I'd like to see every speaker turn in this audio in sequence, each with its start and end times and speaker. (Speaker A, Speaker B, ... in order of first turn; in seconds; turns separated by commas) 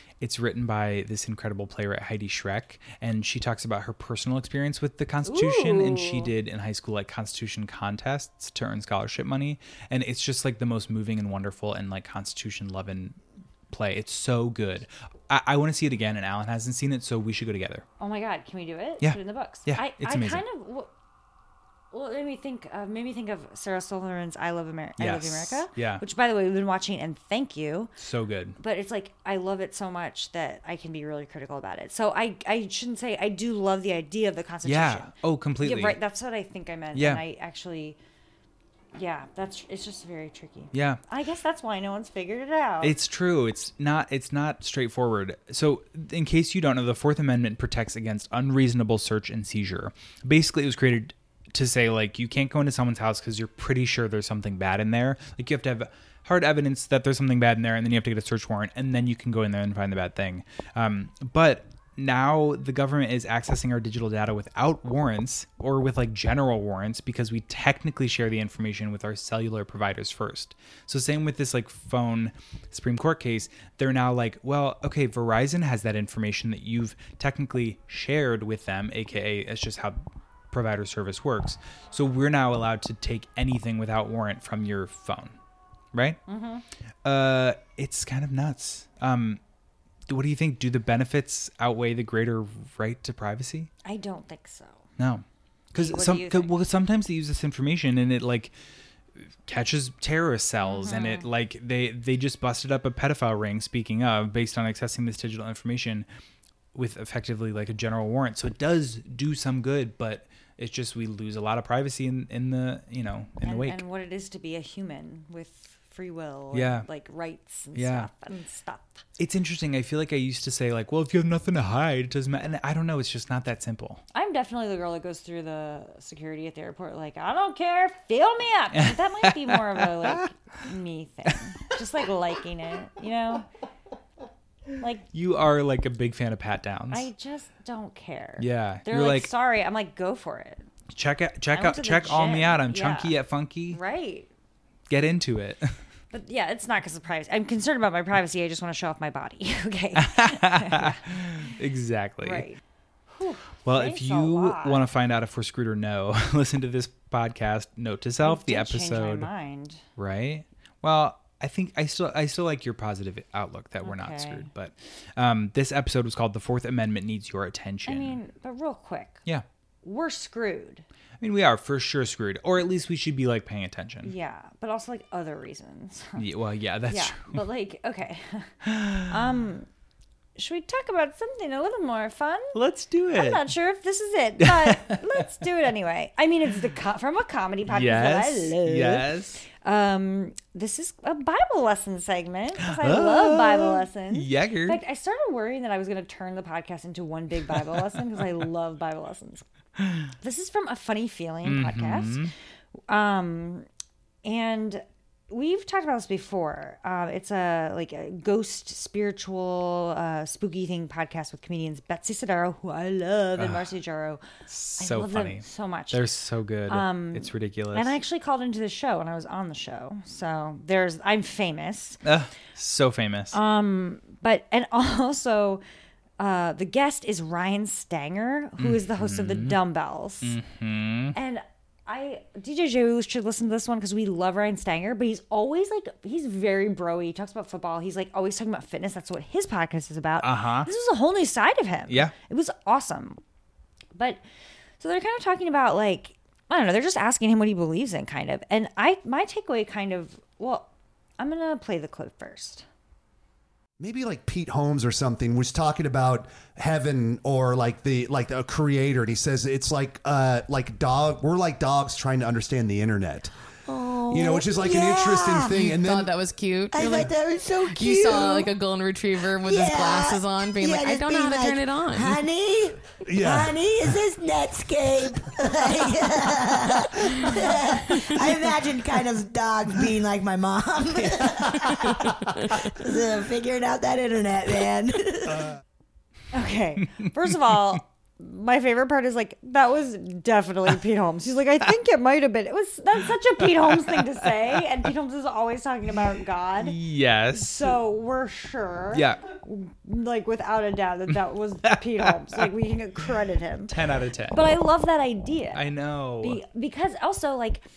Speaker A: 0.2-13.2, Speaker B: 5.2-6.3, Speaker A: 13.7-17.8, Speaker B: 18.0-20.9, Speaker A: 19.0-20.4, Speaker B: 21.9-27.9, Speaker A: 25.0-26.0, Speaker A: 28.0-28.6, Speaker B: 28.6-38.0, Speaker A: 34.6-36.0, Speaker A: 36.9-37.2, Speaker B: 38.9-42.9, Speaker A: 40.7-41.0, Speaker A: 42.8-85.3, Speaker A: 85.9-86.2, Speaker B: 86.3-86.6, Speaker A: 87.0-89.4, Speaker A: 90.1-93.7, Speaker B: 93.8-94.8, Speaker A: 95.0-98.5, Speaker B: 95.8-96.5, Speaker A: 99.4-106.0, Speaker B: 100.6-101.3, Speaker A: 106.7-113.8, Speaker B: 113.4-119.0, Speaker A: 116.5-116.9, Speaker A: 117.7-118.1, Speaker A: 119.2-124.0, Speaker B: 124.1-133.4, Speaker A: 128.8-130.2, Speaker B: 134.8-135.1, Speaker A: 135.1-137.1, Speaker B: 136.9-140.7, Speaker A: 138.4-139.3, Speaker A: 140.9-143.8, Speaker B: 141.5-143.1, Speaker B: 143.7-144.3, Speaker A: 144.9-145.7, Speaker B: 146.1-151.6, Speaker A: 150.0-152.4, Speaker B: 152.2-152.6, Speaker B: 153.1-154.8, Speaker A: 153.6-159.3, Speaker B: 158.2-159.8, Speaker A: 160.0-168.2, Speaker B: 163.8-164.5, Speaker B: 167.8-169.2, Speaker B: 169.8-170.8, Speaker A: 171.2-174.1, Speaker B: 174.0-176.2, Speaker A: 176.2-177.4, Speaker B: 176.9-178.6, Speaker A: 178.6-179.1, Speaker B: 179.1-179.7, Speaker B: 180.3-182.6, Speaker A: 182.5-183.4, Speaker B: 183.1-199.4, Speaker A: 184.4-185.0, Speaker A: 187.7-189.4, Speaker A: 192.6-194.8, Speaker A: 197.5-197.8, Speaker A: 199.8-200.1, Speaker B: 200.2-202.3, Speaker A: 201.4-202.3, Speaker B: 202.9-203.7, Speaker B: 204.2-214.2, Speaker A: 213.4-213.7, Speaker A: 214.5-217.9, Speaker B: 214.8-216.0, Speaker B: 216.7-222.0, Speaker A: 222.0-223.4, Speaker B: 223.3-225.6, Speaker B: 226.2-230.4, Speaker A: 228.6-229.6, Speaker A: 230.2-231.1, Speaker B: 231.1-243.2, Speaker A: 240.2-240.7, Speaker A: 241.9-242.1, Speaker B: 243.9-244.2, Speaker B: 244.8-252.7, Speaker C: 253.8-263.3, Speaker D: 263.9-265.5, Speaker C: 264.1-266.1, Speaker E: 265.6-267.1, Speaker D: 266.7-268.5, Speaker E: 267.6-272.2, Speaker D: 269.4-282.1, Speaker C: 273.0-273.6, Speaker D: 282.7-285.4, Speaker B: 286.3-296.7, Speaker A: 293.4-294.6, Speaker A: 296.6-297.8, Speaker B: 297.3-303.7, Speaker A: 298.9-299.2, Speaker A: 301.7-302.4, Speaker A: 303.7-304.4, Speaker B: 304.3-305.6, Speaker A: 305.5-306.4, Speaker B: 306.2-307.6